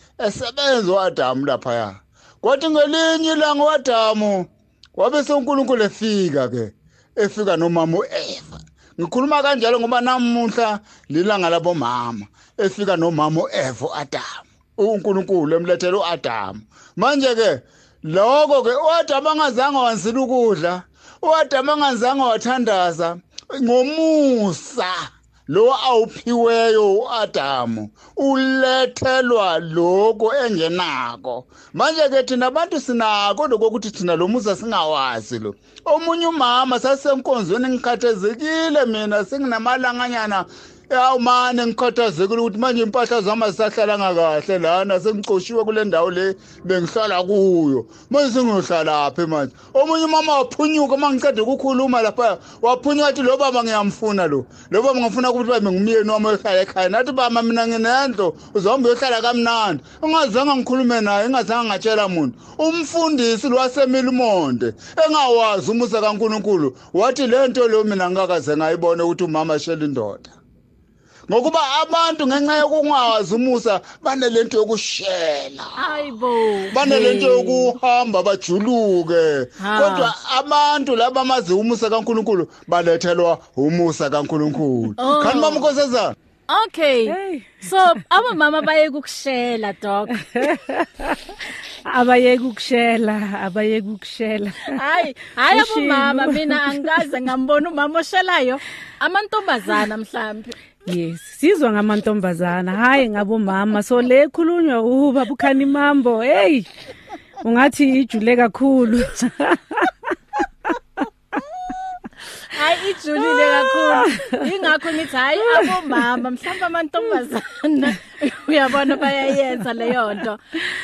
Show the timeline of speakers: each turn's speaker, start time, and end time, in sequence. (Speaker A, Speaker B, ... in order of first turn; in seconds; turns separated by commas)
Speaker A: 0.2-70.3, Speaker A: 71.3-75.8, Speaker B: 75.8-77.7, Speaker A: 76.7-86.1, Speaker B: 79.6-80.1, Speaker B: 85.0-85.7, Speaker B: 86.5-90.4, Speaker C: 87.0-87.7, Speaker C: 90.3-91.1, Speaker C: 91.8-94.8, Speaker B: 94.7-100.5, Speaker C: 95.5-96.9, Speaker C: 100.8-106.7, Speaker C: 107.4-109.9, Speaker B: 112.4-120.4, Speaker C: 113.2-114.3, Speaker C: 115.5-116.0